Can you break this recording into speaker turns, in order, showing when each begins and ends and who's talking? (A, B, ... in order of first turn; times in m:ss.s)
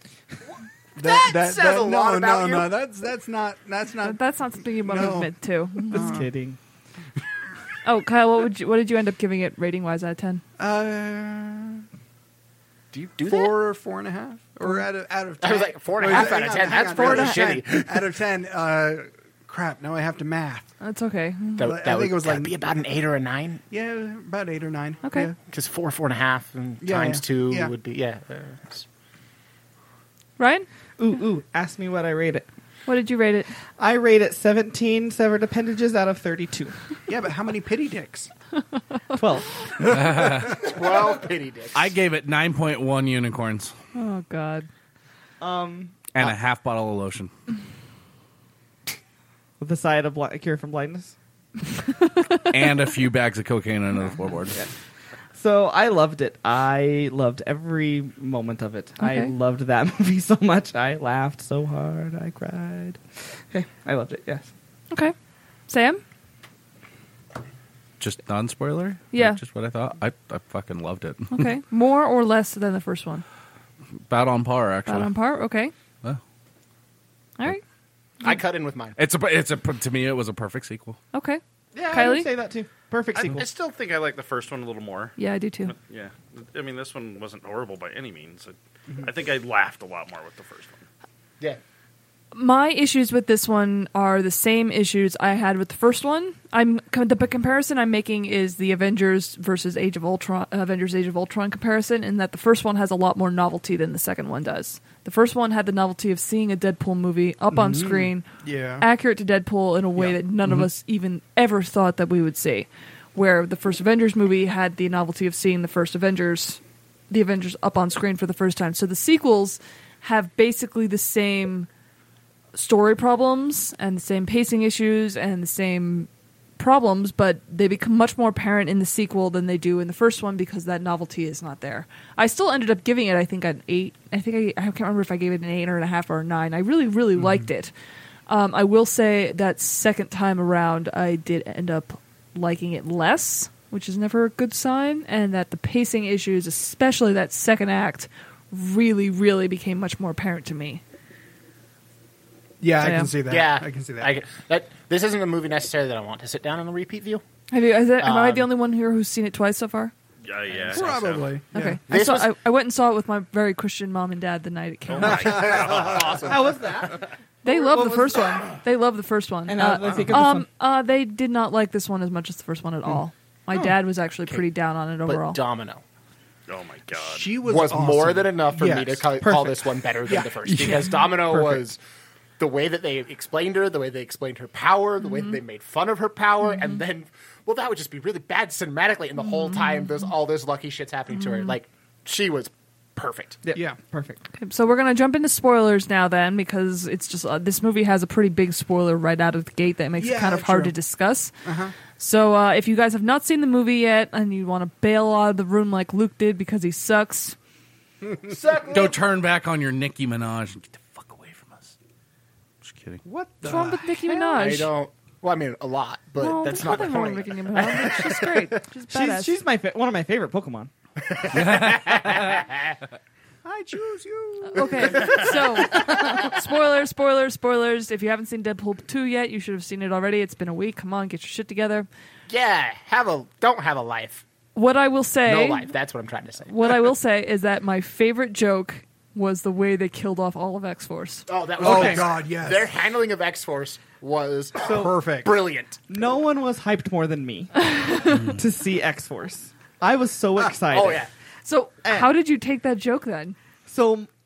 0:01.0-0:04.2 A
0:01.0-0:02.7 B
0:04.0-0:06.2 C
0:04.8-0:06.3 A
0:05.9-0:06.6 D
0:07.8-0:10.4 C
0:10.6-0:11.8 A
0:12.9-0:13.6 B
0:13.2-0:20.7 A
0:15.4-0:18.2 B
0:16.1-0:17.4 C
0:20.8-0:21.7 C
0:21.6-0:23.6 B
0:21.6-0:22.5 A
0:23.7-0:25.4 A
0:25.0-0:25.3 C
0:25.5-0:28.8 B
0:26.8-0:27.7 A
0:30.4-0:30.7 C
0:31.0-0:32.5 D
0:32.8-0:33.5 C
0:33.8-0:36.7 D
0:37.1-0:38.3 A
0:39.2-0:39.5 D
0:39.8-0:40.6 E
0:40.6-0:41.9 B
0:41.7-0:43.7 E
0:43.9-0:44.7 C
0:45.4-0:46.0 D
0:46.1-0:47.3 E
0:49.6-0:51.1 D
0:52.5-0:54.6 E
0:55.3-1:04.5 D
0:59.0-0:59.3 C
1:05.7-1:06.0 C
1:08.0-1:11.5 E
1:09.1-1:09.4 C
1:11.3-1:13.2 C
1:14.1-1:15.1 E
1:14.8-1:15.7 C
1:18.2-1:18.9 B
1:19.0-1:21.0 E
1:21.1-1:22.3 C
1:21.7-1:23.4 D
1:23.2-1:30.8 F
1:25.2-1:25.7 C
1:32.3-2:01.7 C
1:47.5-1:48.8 A
2:02.5-2:17.7 C
2:17.2-2:17.4 A
2:18.3-2:30.8 C
2:32.6-2:34.1 A
2:32.8-2:33.1 C
2:33.3-2:37.2 B
2:37.5-2:39.9 C
2:38.0-2:38.5 B
2:40.2-2:41.4 F
2:40.7-2:41.8 A
2:41.5-2:45.6 C
2:41.9-2:42.3 B
2:44.9-2:46.3 F
2:45.1-2:45.7 A
2:45.2-2:46.4 B
2:46.2-2:48.3 D
2:47.4-2:55.4 C
2:49.5-2:50.5 D
2:55.0-2:55.8 B
2:56.5-2:57.4 F
2:57.0-2:59.4 A
2:57.4-3:01.8 B
2:59.2-2:59.5 D
3:00.1-3:01.6 A
3:02.4-3:13.4 B
3:05.1-3:05.4 C
3:06.5-3:06.8 C
3:09.2-3:09.9 C
3:11.1-3:11.5 C
3:13.4-3:14.2 D
3:14.4-3:21.3 C
3:20.0-3:20.7 A
3:21.4-3:21.7 A
3:21.9-3:27.4 C
3:28.1-3:28.9 A
3:28.3-3:28.9 B
3:28.7-3:31.7 E
3:32.6-3:33.0 E
3:33.0-3:34.4 A
3:33.4-3:34.7 C
3:34.1-3:38.6 B
3:36.2-3:39.4 C
3:38.9-3:40.7 D
3:41.0-3:42.7 B
3:41.3-3:42.3 E
3:43.4-3:45.4 A
3:44.5-3:51.9 C
3:44.9-3:46.1 B
3:52.3-3:54.2 B
3:54.5-3:55.7 C
3:55.2-3:56.9 B
3:56.5-4:01.9 C
4:01.3-4:05.8 B
4:01.6-4:02.7 A
4:04.6-4:05.3 A
4:04.6-4:05.0 D
4:05.9-4:07.6 D
4:07.7-4:08.2 C
4:08.3-4:11.1 D
4:10.7-4:11.1 B
4:11.4-4:13.4 C
4:11.8-4:12.2 D
4:13.6-4:14.1 D